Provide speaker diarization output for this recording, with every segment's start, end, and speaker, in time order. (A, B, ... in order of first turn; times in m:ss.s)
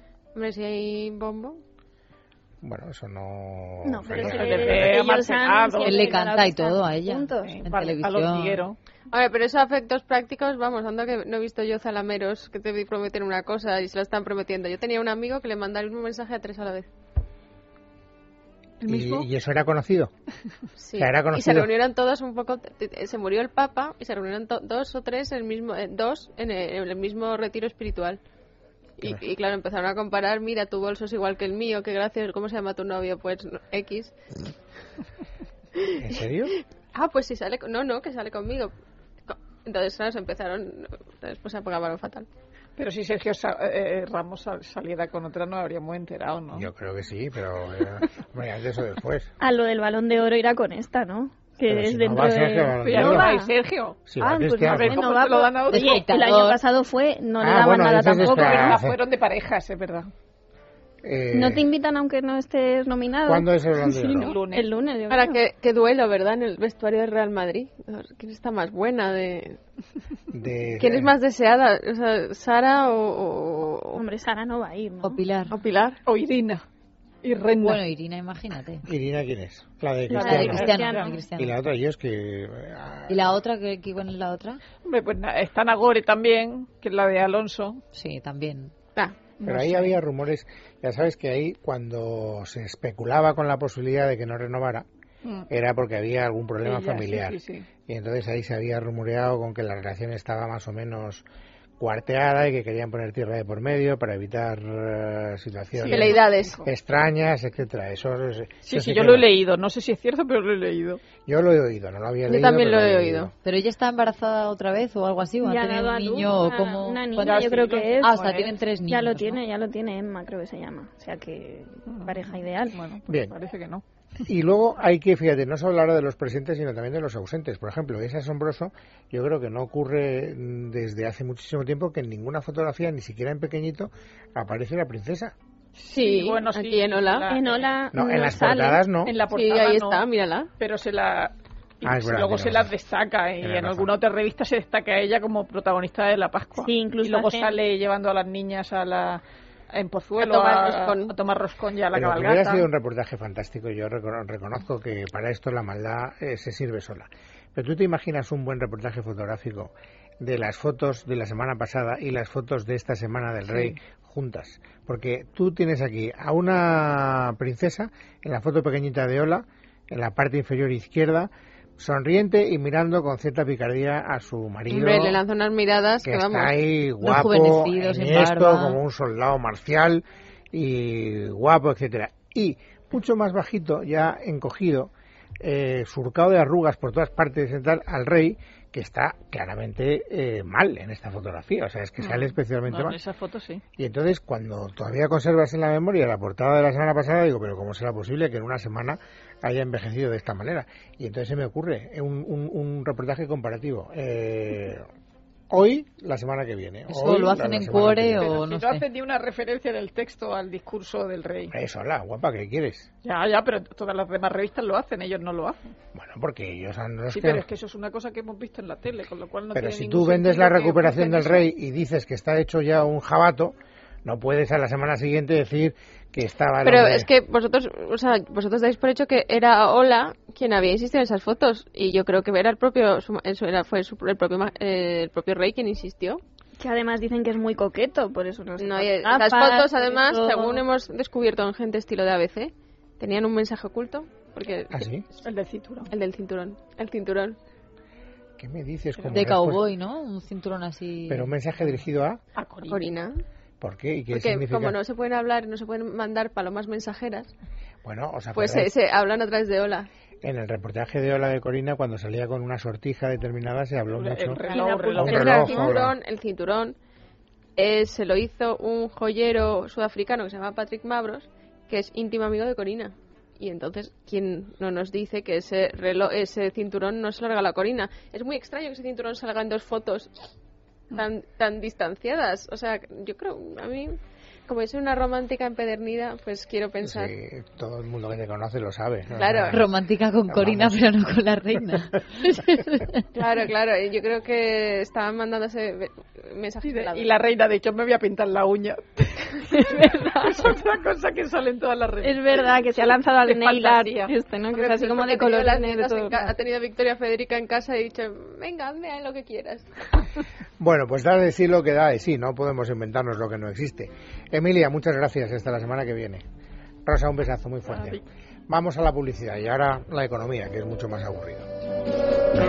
0:00.4-0:01.6 A
0:02.6-0:05.1 B
0:03.8-0:07.7 C
0:04.2-0:06.2 D
0:05.8-0:08.7 E
0:07.4-0:08.8 D
0:09.1-0:16.9 A
0:18.8-0:19.3 D
0:18.9-0:20.1 B
0:20.8-0:28.2 A
0:21.0-0:21.7 B
0:29.0-0:34.2 A
0:36.0-0:36.6 B
0:36.9-0:38.7 A
0:39.3-0:42.3 A
0:42.8-0:46.7 D
0:46.5-0:49.3 B
0:49.4-0:53.5 C
0:51.7-0:53.3 B
0:52.8-0:54.0 D
0:54.1-0:55.0 B
0:54.2-0:58.8 C
0:54.6-0:56.0 D
0:55.7-0:56.6 E
0:57.4-0:59.0 B
0:58.2-1:00.1 D
1:01.0-1:01.7 B
1:01.3-1:05.4 C
1:03.3-1:04.4 B
1:04.2-1:04.7 D
1:05.1-1:09.6 A
1:10.3-1:11.1 B
1:10.8-1:14.0 A
1:14.0-1:15.2 C
1:15.0-1:15.6 E
1:15.5-1:16.0 A
1:16.1-1:16.6 D
1:17.2-1:17.8 D
1:17.6-1:18.9 E
1:18.9-1:20.7 B
1:20.1-1:21.2 C
1:20.1-1:21.2 D
1:20.2-1:21.6 E
1:21.4-1:23.3 B
1:23.1-1:24.6 E
1:24.8-1:27.8 D
1:27.9-1:28.7 E
1:29.4-1:30.0 D
1:29.4-1:34.9 B
1:35.5-1:41.2 B
1:36.6-1:37.7 D
1:41.8-1:49.3 B
1:45.8-1:46.7 D
1:45.9-1:46.6 A
1:48.6-1:51.0 D
1:51.2-1:53.3 B
1:52.3-1:53.3 A
1:53.4-1:57.5 E
1:55.4-1:58.2 C
1:57.2-1:58.6 D
1:58.0-1:59.4 E
1:58.9-2:02.8 C
2:01.9-2:03.8 D
2:03.1-2:03.3 B
2:04.2-2:15.4 B
2:15.8-2:17.7 D
2:15.9-2:17.3 A
2:17.3-2:18.9 C
2:17.9-2:19.2 B
2:19.0-2:32.7 D
2:19.3-2:20.5 A
2:21.8-2:22.7 B
2:23.4-2:23.9 B
2:26.6-2:27.6 C
2:30.2-2:31.2 A
2:31.9-2:55.2 B
2:43.5-2:43.8 D
2:54.7-2:56.6 A
2:56.0-3:13.0 B
2:57.0-2:58.8 E
3:12.0-3:13.6 D
3:13.8-3:24.8 B
3:25.5-3:28.3 B
3:26.9-3:28.8 E
3:28.1-3:31.5 D
3:31.5-3:32.9 B
3:33.0-3:35.7 D
3:35.9-3:37.4 B
3:37.1-3:41.5 D
3:39.6-3:47.1 B
3:46.6-3:56.2 A
3:56.6-4:00.0 C
3:58.6-4:05.0 A
3:59.8-4:00.6 E
4:04.7-4:05.0 B
4:05.2-4:05.9 D
4:05.9-4:07.4 A
4:08.4-4:09.6 B
4:09.1-4:11.8 E
4:11.1-4:12.2 B
4:12.4-4:13.0 D
4:12.7-4:13.1 A
4:13.6-4:14.8 B
4:14.1-4:17.3 A
4:17.8-4:18.7 B
4:18.3-4:19.9 A
4:20.2-4:24.4 B
4:23.9-4:25.6 D
4:24.4-4:26.8 A
4:24.5-4:25.8 C
4:25.0-4:26.0 B
4:27.6-4:40.1 A
4:40.9-4:43.9 A
4:44.5-4:47.1 A
4:46.8-4:49.7 B
4:49.2-4:49.6 A
4:49.5-4:53.0 E
4:50.3-4:50.8 B
4:53.2-4:57.2 A
4:56.6-5:04.9 D
4:59.5-5:00.4 C
5:02.0-5:06.2 C
5:04.6-5:10.0 A
5:10.6-5:16.2 B
5:16.8-5:21.5 B
5:17.7-5:18.0 D